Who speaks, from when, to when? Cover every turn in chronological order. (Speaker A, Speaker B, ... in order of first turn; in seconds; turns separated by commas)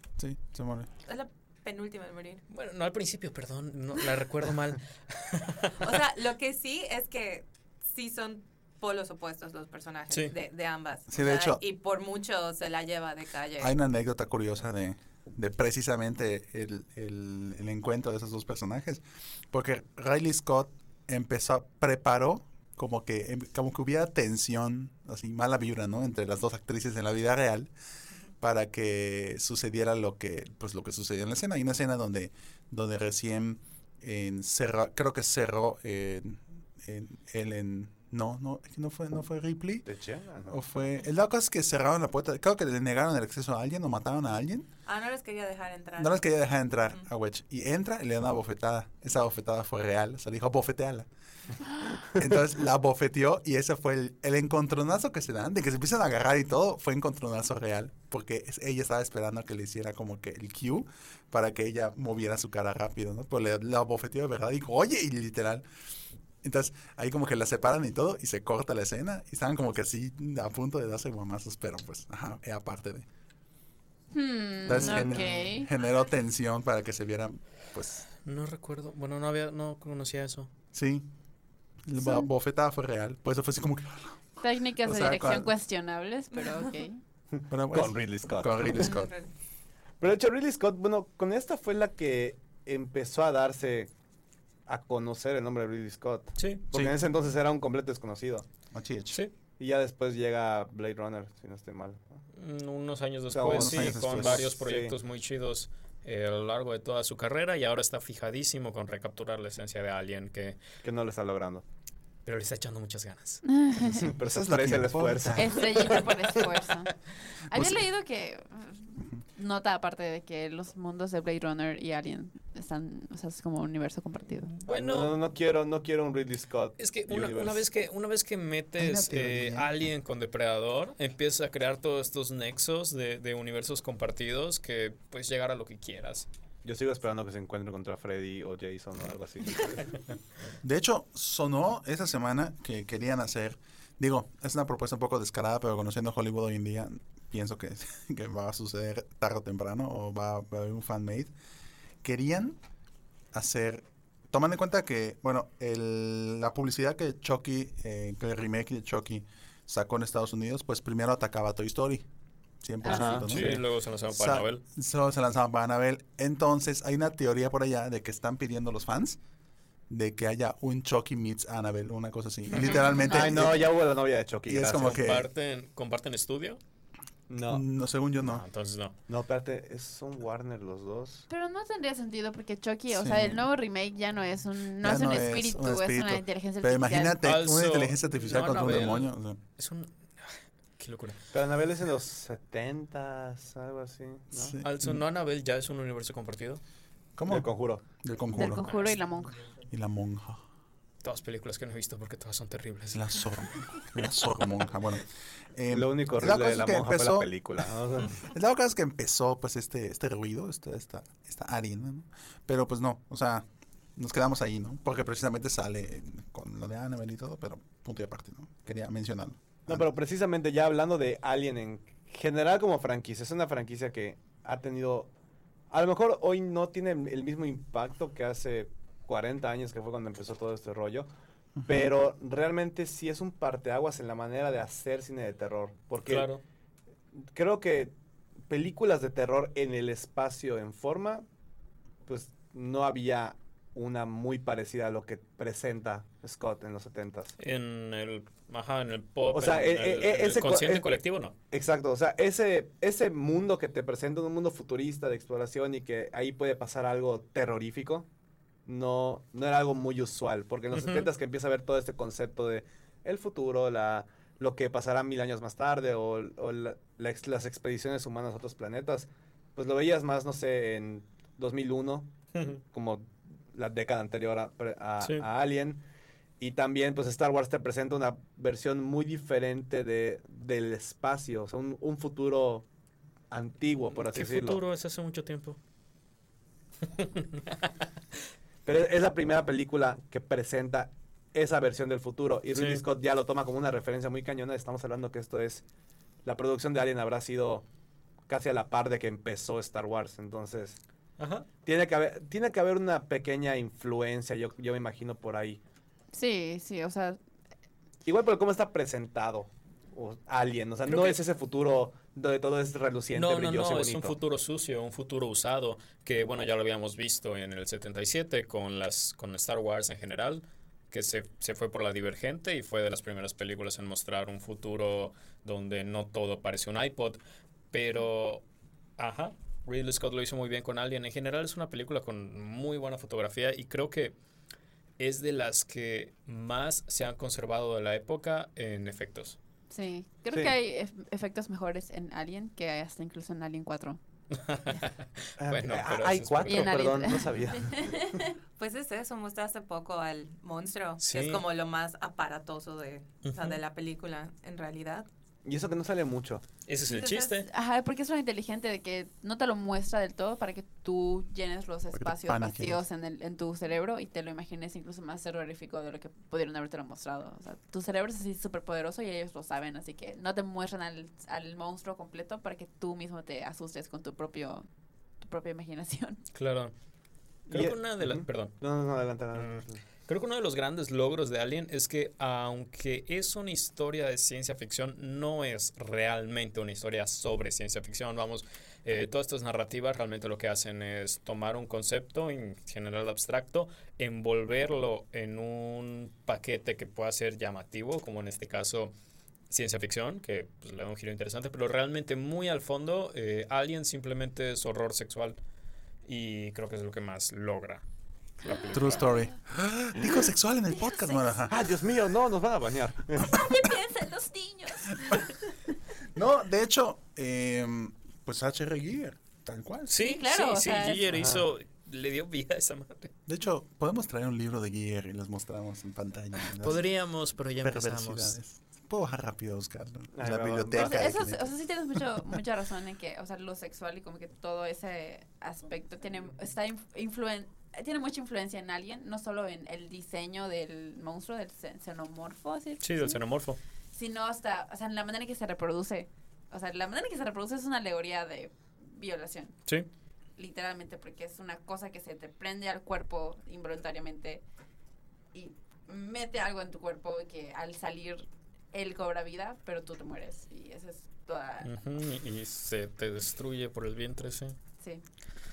Speaker A: 0.2-0.9, Speaker B: 1.1-2.4, Speaker C: 2.5-6.0, Speaker B: 5.8-13.7, Speaker A: 11.1-11.6, Speaker A: 13.6-27.7, Speaker A: 28.4-39.9, Speaker D: 39.9-40.6, Speaker A: 40.5-44.7, Speaker B: 44.9-46.2, Speaker A: 46.0-51.1, Speaker A: 52.1-65.6, Speaker A: 66.4-73.0, Speaker E: 74.1-75.7, Speaker A: 74.6-78.1, Speaker C: 78.2-80.5, Speaker A: 80.7-81.1, Speaker A: 81.8-84.2, Speaker E: 82.0-82.3, Speaker E: 84.4-87.0, Speaker A: 84.8-85.5, Speaker D: 87.3-88.9, Speaker A: 87.5-89.1, Speaker B: 88.9-89.3, Speaker D: 90.0-93.9, Speaker D: 94.7-98.5, Speaker C: 96.4-96.9, Speaker A: 98.7-99.2, Speaker D: 99.6-102.2, Speaker C: 102.4-110.6, Speaker D: 103.3-104.9, Speaker A: 103.5-104.5, Speaker D: 110.8-111.6, Speaker C: 112.2-113.4, Speaker E: 113.4-114.1, Speaker D: 113.9-116.1, Speaker A: 114.1-116.0, Speaker E: 115.3-117.0, Speaker E: 117.5-124.5, Speaker A: 117.5-117.9, Speaker C: 124.5-125.2, Speaker D: 124.7-127.6, Speaker C: 126.8-136.3, Speaker A: 128.8-129.7, Speaker D: 136.6-140.0, Speaker A: 140.6-151.3, Speaker A: 152.0-152.6, Speaker A: 153.3-162.1, Speaker A: 162.6-169.2, Speaker E: 162.8-163.3, Speaker D: 162.9-163.4, Speaker C: 163.2-164.6, Speaker A: 169.9-173.7, Speaker D: 173.1-175.2, Speaker A: 174.4-175.3, Speaker C: 174.9-176.6, Speaker D: 177.3-177.6, Speaker A: 177.5-178.4, Speaker C: 178.2-178.9, Speaker D: 179.1-181.2, Speaker E: 181.3-187.2, Speaker A: 182.9-183.4, Speaker A: 184.8-189.4, Speaker C: 187.2-191.2, Speaker D: 191.3-194.6, Speaker A: 194.3-195.0, Speaker C: 194.6-196.6, Speaker A: 197.2-197.5, Speaker D: 197.3-197.8, Speaker A: 198.0-198.7, Speaker E: 198.3-199.4, Speaker A: 199.7-200.4, Speaker C: 201.0-203.4, Speaker A: 202.9-207.3, Speaker D: 205.7-208.2, Speaker A: 208.2-219.9, Speaker D: 219.7-225.1, Speaker D: 225.7-231.1, Speaker A: 231.6-231.9, Speaker D: 231.7-236.3, Speaker C: 236.0-236.4, Speaker D: 237.2-237.9, Speaker D: 238.5-241.2, Speaker D: 242.1-247.3, Speaker C: 247.4-251.3, Speaker D: 249.3-250.9, Speaker D: 251.5-258.1, Speaker D: 258.6-272.1, Speaker C: 260.7-261.1, Speaker C: 272.3-272.6, Speaker D: 272.7-275.8, Speaker C: 275.0-275.2, Speaker D: 276.4-282.6, Speaker D: 283.3-284.6, Speaker C: 284.1-285.6, Speaker C: 286.9-287.7, Speaker D: 288.6-295.6, Speaker C: 292.5-292.8, Speaker D: 296.2-297.6, Speaker D: 298.3-300.8, Speaker C: 301.2-301.5, Speaker D: 301.6-305.6, Speaker E: 306.1-307.2, Speaker D: 308.0-314.2, Speaker C: 310.9-311.2, Speaker C: 313.1-327.2, Speaker C: 327.7-328.4, Speaker C: 329.0-334.1, Speaker C: 335.0-339.4, Speaker E: 339.7-344.0, Speaker C: 344.4-347.1, Speaker D: 345.4-348.1, Speaker E: 346.5-348.3, Speaker B: 348.6-355.1, Speaker C: 351.0-351.4, Speaker C: 353.2-353.6, Speaker D: 355.4-356.4, Speaker C: 356.7-357.5, Speaker B: 356.8-357.3, Speaker E: 357.5-374.7, Speaker A: 361.9-362.8, Speaker E: 375.2-376.2, Speaker C: 376.3-376.7, Speaker C: 377.5-378.5, Speaker D: 377.5-379.8, Speaker C: 379.3-398.9, Speaker C: 399.5-405.4, Speaker C: 406.1-407.8, Speaker E: 408.4-408.9, Speaker A: 408.7-411.7, Speaker D: 411.5-413.4, Speaker E: 413.3-415.2, Speaker A: 416.1-419.9, Speaker C: 419.9-423.1, Speaker E: 420.0-421.1, Speaker D: 421.1-421.4, Speaker A: 423.3-426.9, Speaker C: 426.5-428.4, Speaker A: 427.6-432.2, Speaker D: 430.1-431.0, Speaker E: 430.7-443.2, Speaker C: 442.8-443.6, Speaker E: 443.9-449.6, Speaker E: 450.4-454.4, Speaker E: 455.3-461.7, Speaker C: 461.6-464.6